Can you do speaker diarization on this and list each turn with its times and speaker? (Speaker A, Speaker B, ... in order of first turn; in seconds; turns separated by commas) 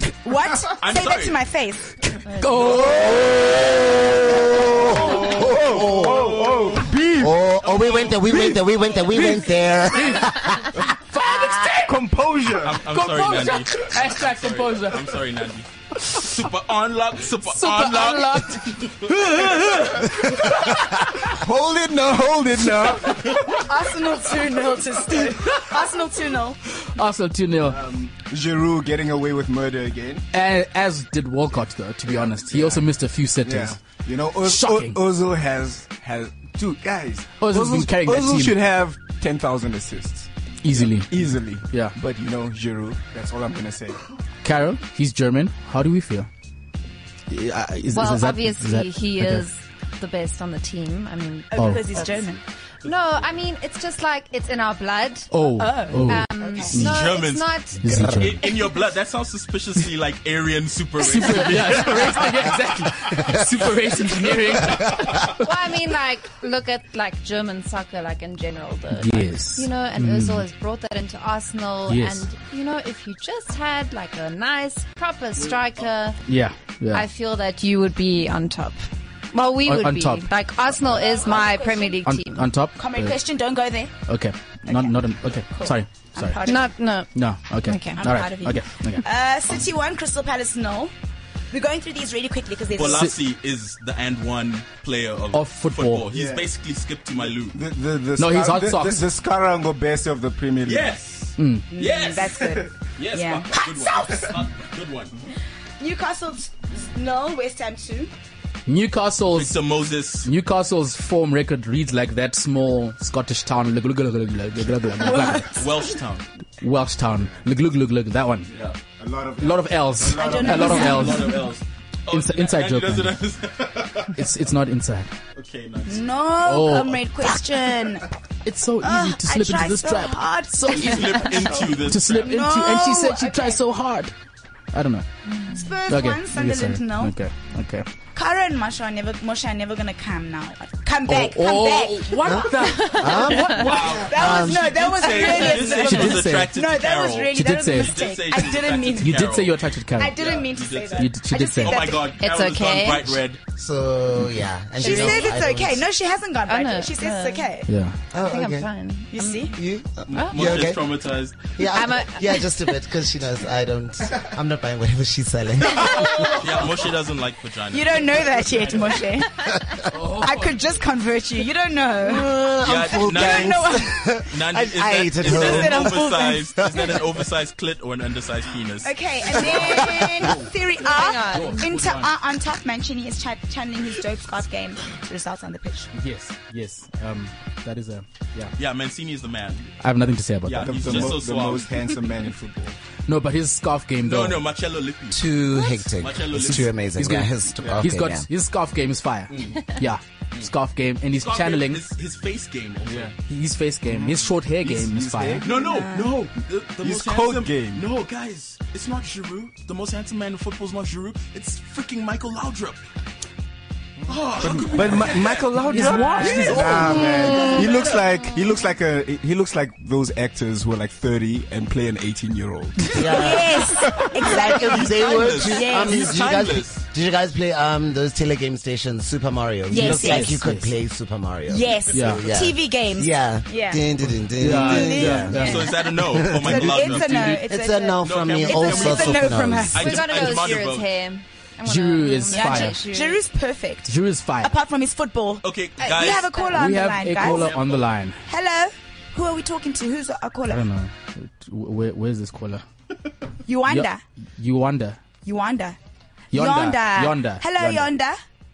Speaker A: 0.2-2.1, Speaker B: 0.7-1.4, Speaker C: 2.3-3.2, Speaker D: 2.6-3.7, Speaker E: 3.1-6.4, Speaker D: 4.7-7.5, Speaker B: 5.3-6.9, Speaker E: 7.2-10.7, Speaker B: 7.6-9.1, Speaker C: 9.9-10.2, Speaker C: 11.0-12.0, Speaker D: 11.6-12.8, Speaker B: 12.6-19.9, Speaker C: 12.9-15.1, Speaker C: 17.5-19.9, Speaker D: 19.5-23.6, Speaker A: 23.5-26.6, Speaker C: 26.8-27.8, Speaker D: 27.6-30.2, Speaker C: 30.3-33.8, Speaker D: 32.1-32.9, Speaker D: 33.4-44.0, Speaker C: 34.4-35.0, Speaker C: 37.4-38.6, Speaker C: 40.6-41.9, Speaker C: 44.4-46.3, Speaker C: 47.3-49.5, Speaker F: 47.9-52.1, Speaker A: 51.5-52.4, Speaker C: 51.5-51.9, Speaker F: 52.8-55.3, Speaker C: 55.3-57.0, Speaker A: 55.6-56.8, Speaker F: 55.9-58.1, Speaker B: 56.7-62.5, Speaker C: 57.8-58.4, Speaker C: 61.0-65.3, Speaker F: 65.2-76.2, Speaker C: 68.9-70.4, Speaker C: 71.9-72.2, Speaker C: 76.2-77.1, Speaker F: 76.9-82.5, Speaker C: 79.6-80.3, Speaker A: 80.8-82.0, Speaker C: 82.0-83.2, Speaker A: 82.7-83.9, Speaker C: 84.0-86.4, Speaker A: 84.7-86.7, Speaker F: 86.4-87.1, Speaker C: 87.1-89.0, Speaker F: 87.7-88.0, Speaker A: 87.7-90.9, Speaker A: 91.5-93.1, Speaker B: 92.7-97.6, Speaker C: 92.8-93.2, Speaker C: 95.3-96.1, Speaker D: 96.1-96.5, Speaker D: 97.2-101.0, Speaker C: 98.2-99.0, Speaker B: 100.6-105.1, Speaker C: 101.4-101.7, Speaker A: 101.7-104.3, Speaker A: 105.8-108.1, Speaker C: 108.7-109.6, Speaker B: 109.3-110.3, Speaker C: 110.2-115.6, Speaker A: 115.0-115.8, Speaker B: 115.6-116.2, Speaker C: 116.6-118.5, Speaker B: 118.5-118.8, Speaker D: 119.0-120.9, Speaker C: 119.4-121.5, Speaker A: 120.1-121.4, Speaker B: 120.3-124.2, Speaker C: 122.1-123.2, Speaker C: 124.1-125.1, Speaker B: 125.3-126.0, Speaker A: 125.9-128.1, Speaker C: 126.4-127.5, Speaker C: 128.4-134.1, Speaker A: 128.8-133.6, Speaker B: 130.7-132.3, Speaker C: 134.7-135.1, Speaker A: 135.5-137.1, Speaker C: 135.9-137.8, Speaker A: 138.1-142.5, Speaker C: 141.1-143.9, Speaker E: 142.2-144.8, Speaker F: 142.7-143.6, Speaker B: 143.6-149.6, Speaker A: 143.9-149.3, Speaker C: 145.5-146.5, Speaker C: 147.3-148.0, Speaker C: 149.0-150.2, Speaker A: 149.9-152.1, Speaker B: 150.1-153.4, Speaker C: 151.0-151.8, Speaker F: 152.2-153.2, Speaker E: 153.6-155.8, Speaker A: 154.8-157.7, Speaker F: 154.8-155.3, Speaker F: 156.4-157.5, Speaker C: 157.7-157.9, Speaker E: 158.1-158.7, Speaker F: 158.2-159.5, Speaker A: 159.1-159.5, Speaker E: 159.5-160.8, Speaker B: 160.1-161.4, Speaker F: 160.1-160.6, Speaker E: 161.6-166.3, Speaker F: 161.7-162.4, Speaker B: 166.3-168.6, Speaker A: 167.7-169.5, Speaker C: 169.9-170.6, Speaker A: 170.1-172.4, Speaker E: 172.0-176.9, Speaker B: 172.6-179.8, Speaker A: 172.9-174.0, Speaker A: 175.2-176.5, Speaker A: 178.8-185.9, Speaker E: 179.6-180.0, Speaker C: 180.2-180.5, Speaker F: 180.8-181.7, Speaker C: 181.3-182.1, Speaker C: 185.9-188.5, Speaker B: 188.6-189.7, Speaker C: 189.8-191.0, Speaker B: 190.4-191.8, Speaker D: 190.6-192.7, Speaker C: 193.1-194.4, Speaker B: 194.0-195.3, Speaker E: 195.1-198.2, Speaker B: 195.9-196.8, Speaker C: 196.9-201.8, Speaker D: 197.6-197.9, Speaker B: 199.3-199.6, Speaker B: 201.2-203.1, Speaker D: 202.8-203.1, Speaker C: 203.2-205.4, Speaker D: 203.8-205.5, Speaker B: 205.4-212.8, Speaker A: 205.4-206.2, Speaker D: 206.8-207.8, Speaker D: 214.0-223.1, Speaker B: 214.1-215.9, Speaker C: 215.7-217.3, Speaker A: 215.7-217.6, Speaker E: 217.0-217.6, Speaker E: 222.9-223.7, Speaker A: 223.1-226.1, Speaker E: 224.2-236.8, Speaker B: 224.5-226.8, Speaker A: 229.7-230.4, Speaker C: 229.7-230.7, Speaker A: 231.5-233.8, Speaker C: 231.9-232.2, Speaker C: 234.4-235.7, Speaker A: 234.4-240.0, Speaker B: 235.3-237.4, Speaker E: 237.5-239.8, Speaker B: 238.0-240.9, Speaker F: 239.8-243.2, Speaker C: 241.7-242.8, Speaker A: 242.3-247.5, Speaker C: 243.9-244.5, Speaker B: 245.4-246.3, Speaker C: 246.5-248.2, Speaker B: 247.2-247.9, Speaker A: 248.2-250.6, Speaker C: 250.5-252.6, Speaker A: 253.4-254.0, Speaker C: 253.7-255.0, Speaker A: 255.2-255.8, Speaker C: 256.3-257.9, Speaker A: 256.3-258.2